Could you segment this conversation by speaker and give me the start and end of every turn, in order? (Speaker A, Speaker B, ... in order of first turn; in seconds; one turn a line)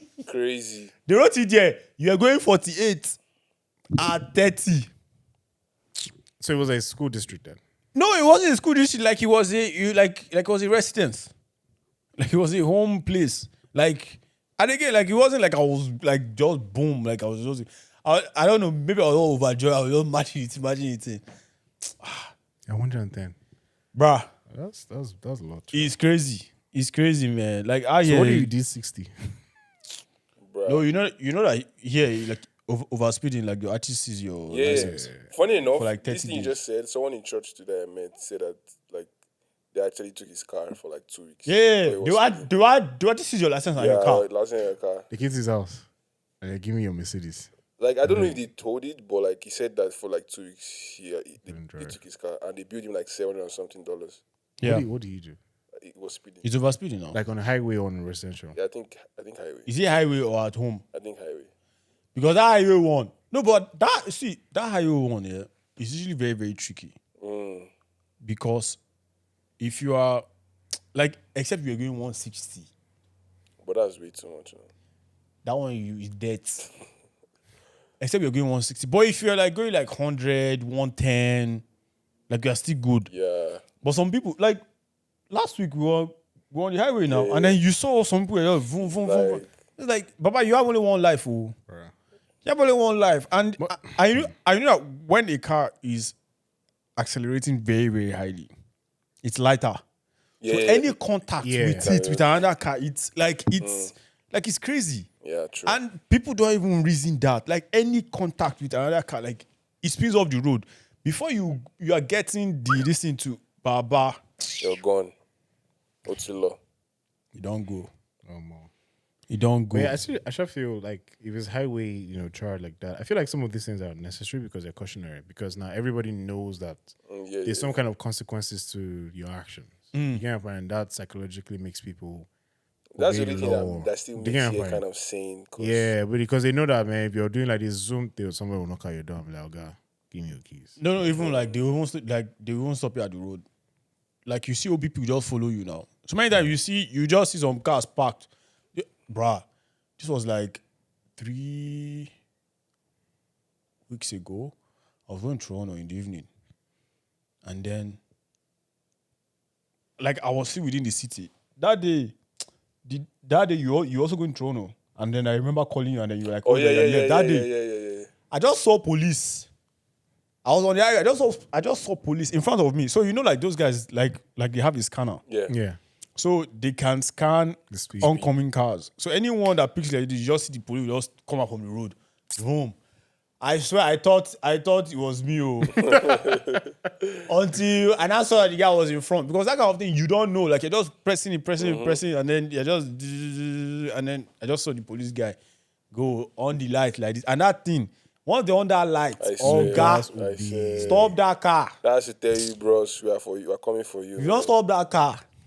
Speaker A: 0.3-0.9
Speaker B: 1.1-3.2
Speaker B: 4.0-4.9
Speaker C: 6.4-7.6
Speaker B: 8.0-11.3
Speaker B: 12.2-21.2
Speaker B: 22.0-22.3
Speaker C: 22.7-23.4
Speaker B: 23.9-24.3
Speaker C: 24.5-25.9
Speaker B: 25.7-28.5
Speaker C: 28.0-29.1
Speaker A: 30.4-30.9
Speaker B: 30.7-35.1
Speaker A: 34.5-39.1
Speaker C: 34.6-35.3
Speaker B: 35.8-36.6
Speaker A: 39.7-42.5
Speaker B: 41.5-44.3
Speaker A: 43.8-45.1
Speaker C: 45.1-45.9
Speaker C: 46.4-47.5
Speaker A: 47.8-54.2
Speaker C: 48.0-48.4
Speaker C: 51.5-52.0
Speaker B: 54.6-54.9
Speaker C: 54.6-55.4
Speaker A: 55.8-56.5
Speaker B: 56.4-57.2
Speaker C: 57.1-58.6
Speaker A: 58.5-59.7
Speaker B: 59.7-60.8
Speaker A: 60.9-61.5
Speaker B: 62.1-67.0
Speaker A: 67.2-67.7
Speaker B: 68.2-68.8
Speaker B: 69.6-70.2
Speaker B: 70.9-72.7
Speaker A: 73.6-74.7
Speaker B: 75.4-76.7
Speaker B: 78.0-81.6
Speaker B: 82.3-83.1
Speaker A: 83.1-83.6
Speaker B: 83.8-84.6
Speaker B: 85.3-91.5
Speaker A: 87.1-87.6
Speaker A: 88.9-89.5
Speaker C: 91.7-91.9
Speaker B: 92.4-96.2
Speaker C: 93.6-94.3
Speaker B: 97.0-98.5
Speaker B: 99.2-99.8
Speaker A: 100.4-100.9
Speaker B: 100.5-105.1
Speaker C: 101.4-101.9
Speaker A: 101.8-102.5
Speaker A: 103.6-103.9
Speaker A: 105.2-105.8
Speaker B: 105.7-114.2
Speaker A: 114.6-115.1
Speaker A: 116.1-116.6
Speaker B: 117.3-117.9
Speaker C: 118.3-118.7
Speaker B: 119.3-120.0
Speaker C: 119.7-126.9
Speaker A: 127.1-127.8
Speaker C: 127.4-132.3
Speaker B: 129.9-130.2
Speaker A: 133.0-135.9
Speaker C: 133.0-134.8
Speaker C: 135.6-140.8
Speaker B: 140.8-143.5
Speaker A: 141.2-141.6
Speaker B: 144.3-149.4
Speaker B: 150.0-150.6
Speaker B: 151.2-152.1
Speaker B: 153.9-154.6
Speaker B: 155.1-156.3
Speaker B: 157.4-158.0
Speaker B: 160.0-162.2
Speaker B: 162.8-167.5
Speaker A: 166.4-168.1
Speaker B: 168.3-169.5
Speaker B: 170.4-175.2
Speaker A: 175.3-175.5
Speaker C: 175.5-175.8
Speaker B: 176.2-182.8
Speaker C: 177.7-178.3
Speaker B: 183.4-185.9
Speaker A: 185.8-186.6
Speaker B: 187.3-195.4
Speaker A: 191.6-192.0
Speaker B: 195.9-200.1
Speaker A: 199.2-201.2
Speaker C: 199.4-201.2
Speaker B: 200.8-201.7
Speaker A: 201.8-204.6
Speaker B: 204.2-205.2